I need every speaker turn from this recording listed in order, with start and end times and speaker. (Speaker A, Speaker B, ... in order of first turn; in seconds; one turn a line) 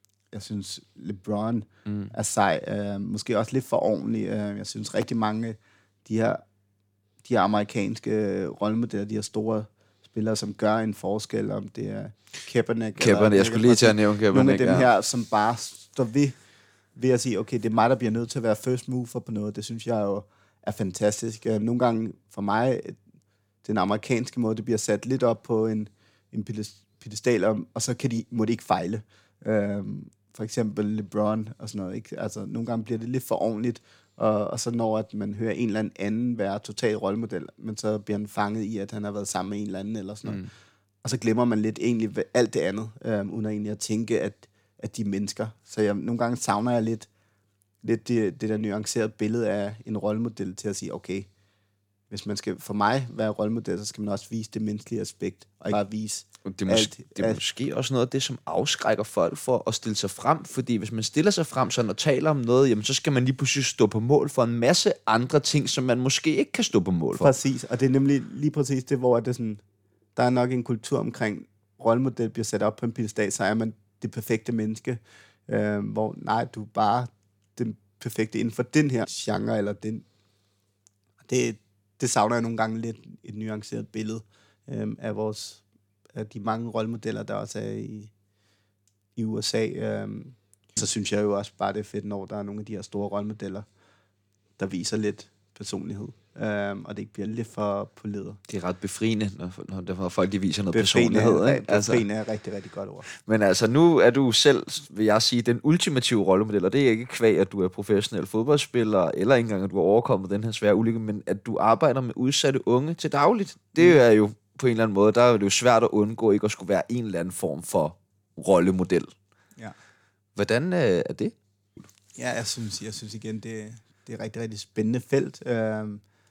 Speaker A: 0.3-6.4
Speaker A: 7.2-16.4
Speaker B: 13.0-14.9
Speaker A: 16.9-23.0
Speaker A: 23.6-40.4
Speaker B: 40.2-40.5
Speaker A: 41.0-47.1
Speaker A: 47.8-51.3
Speaker A: 52.1-57.4
Speaker B: 56.5-67.3
Speaker A: 67.1-69.6
Speaker A: 70.2-80.0
Speaker A: 81.2-88.1
Speaker A: 89.2-93.7
Speaker A: 94.6-98.4
Speaker B: 98.5-102.0
Speaker A: 100.7-103.0
Speaker B: 103.1-119.1
Speaker B: 120.3-121.3
Speaker A: 122.1-126.0